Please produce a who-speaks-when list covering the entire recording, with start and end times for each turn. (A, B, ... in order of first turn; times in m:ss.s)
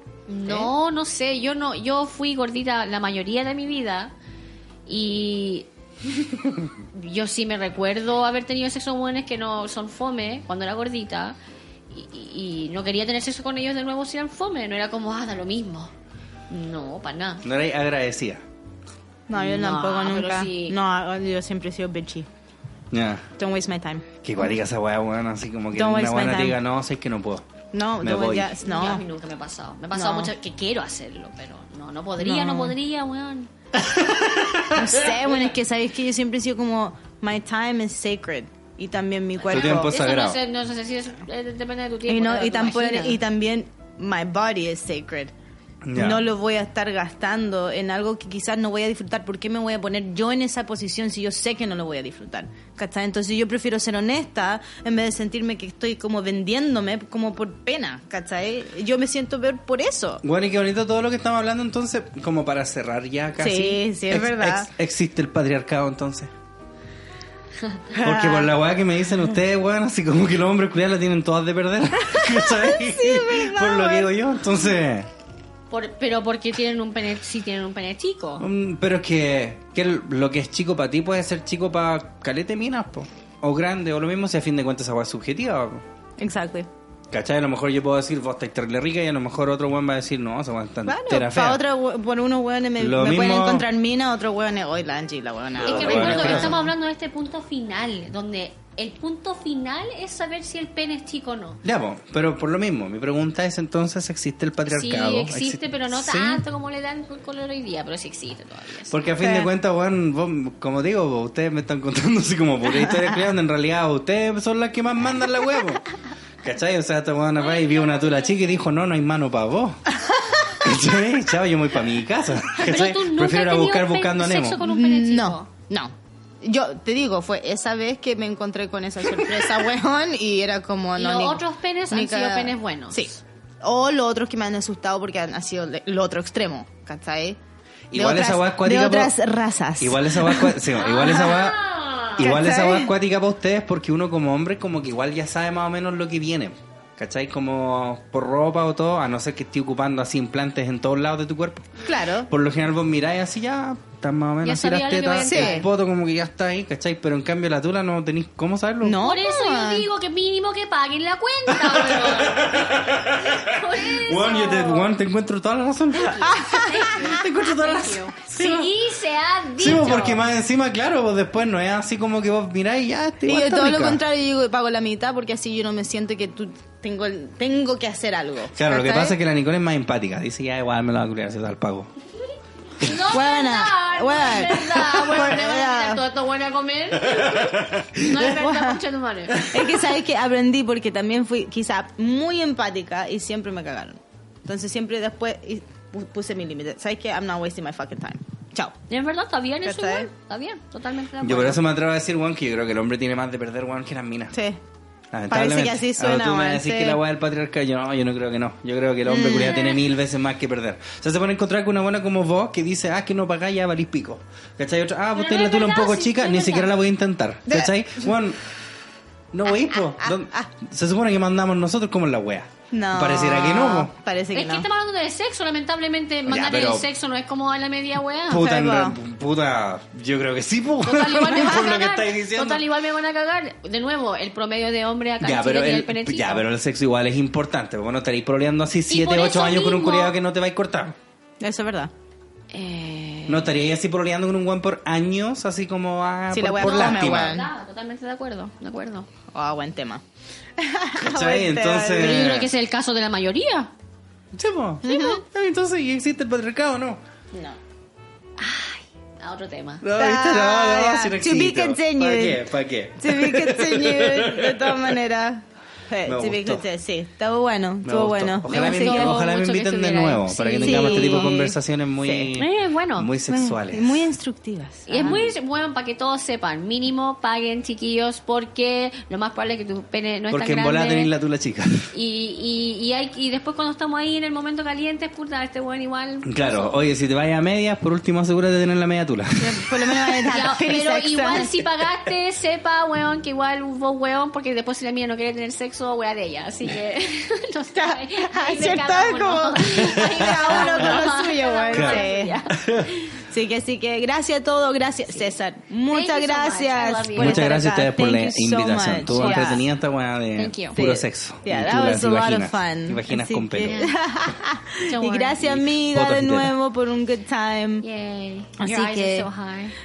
0:00.3-0:04.1 A
0:04.8-0:05.7 A
0:06.9-0:11.4 A
0:11.9-0:15.9 A
0:16.5-0:17.4 A
0:17.4-0:18.4 B
0:19.3-0:22.3 C
0:19.3-0:20.8 A
0:22.9-0:23.3 B
0:23.4-0:24.1 C
0:24.2-0:27.4 B
0:25.7-0:26.6 C
0:27.7-0:29.0 C
0:28.0-0:28.5 B
0:28.6-0:33.5 A
0:29.9-0:30.3 C
0:32.2-0:32.7 C
0:33.7-0:35.1 B
0:34.7-0:39.9 C
0:39.4-0:43.2 A
0:39.5-0:40.4 B
0:42.1-0:45.3 C
0:45.8-0:46.3 B
0:45.9-1:00.2 C
1:00.2-1:06.3 B
1:03.4-1:04.7 C
1:07.6-1:07.9 A
1:07.9-1:15.1 B
1:08.0-1:08.5 C
1:12.2-1:14.1 C
1:15.7-1:18.4 A
1:18.4-1:25.8 B
1:26.2-1:26.7 C
1:27.1-1:31.6 B
1:30.8-1:36.6 C
1:32.8-1:33.7 B
1:35.6-1:36.6 B
1:35.6-1:41.6 A
1:41.6-1:46.4 B
1:44.7-1:49.0 A
1:48.9-1:55.8 B
1:49.2-1:49.5 C
1:56.4-1:59.8 B
1:57.4-1:58.3 A
2:00.1-2:00.5 C
2:00.5-2:04.6 B
2:02.5-2:05.5 A
2:04.6-2:17.4 C
2:11.0-2:13.2 A
2:17.9-2:19.1 B
2:17.9-2:21.3 C
2:19.8-2:21.6 B
2:20.8-2:22.2 A
2:22.2-2:39.0 B
2:22.2-2:22.9 C
2:31.8-2:32.3 C
2:34.4-2:35.6 A
2:35.2-2:35.7 C
2:38.8-2:39.9 C
2:39.0-2:42.6 A
2:41.5-2:48.7 B
2:43.2-2:44.9 A
2:46.0-2:50.2 A
2:46.3-2:47.0 C
2:49.6-2:54.0 B
2:53.2-2:59.2 C
2:58.5-3:01.9 B
3:02.8-3:09.7 A
3:03.1-3:06.0 C
3:07.1-3:08.0 B
3:08.0-3:08.8 C
3:09.3-3:18.7 C
3:18.9-3:21.6 A
3:19.6-3:20.1 C
3:21.2-3:24.3 B
3:24.3-3:24.6 C
3:25.1-3:38.4 B
3:25.3-3:27.0 C
3:29.0-3:29.8 C
3:35.1-3:36.7 A
3:37.5-3:38.1 C
3:39.3-3:43.9 B
3:39.7-3:40.5 C
3:42.7-3:44.6 C
3:44.3-3:48.5 A
3:46.3-3:46.9 B
3:48.3-3:52.6 B
3:48.3-3:49.0 C
3:50.8-3:56.4 A
3:51.3-3:51.7 C
3:55.2-4:00.9 B
3:58.9-4:00.1 A
4:01.4-4:01.9 C
4:02.5-4:03.5 A
4:03.3-4:07.4 B
4:06.3-4:07.5 C
4:06.6-4:09.1 A
4:09.3-4:10.0 C
4:10.6-4:12.2 C
4:11.0-4:12.5 B
4:11.8-4:13.7 A
4:14.3-4:17.0 B
4:14.8-4:15.2 C
4:18.4-4:19.8 A
4:19.8-4:25.0 B
4:20.0-4:22.4 C
4:23.0-4:29.1 C
4:26.0-4:26.6 B
4:27.8-4:34.0 B
4:28.5-4:31.5 A
4:30.6-4:31.5 C
4:32.0-4:32.3 C
4:32.3-4:33.1 A
4:33.3-4:35.2 C
4:34.9-4:41.1 A
4:35.0-4:35.3 B
4:40.3-4:41.9 B
4:41.9-4:46.8 A
4:46.2-4:50.2 B
4:49.4-4:51.6 C
4:50.2-5:02.8 A
4:57.7-5:02.4 C
4:59.8-5:01.0 B
5:01.7-5:03.0 B
5:03.1-5:09.6 C
5:05.9-5:07.5 A
5:07.2-5:13.8 B
5:09.1-5:09.6 A
5:10.4-5:10.8 A
5:10.7-5:17.8 C
5:13.6-5:14.0 A
5:14.8-5:15.4 A
5:15.4-5:16.5 B
5:17.8-5:19.7 A
5:18.6-5:19.3 C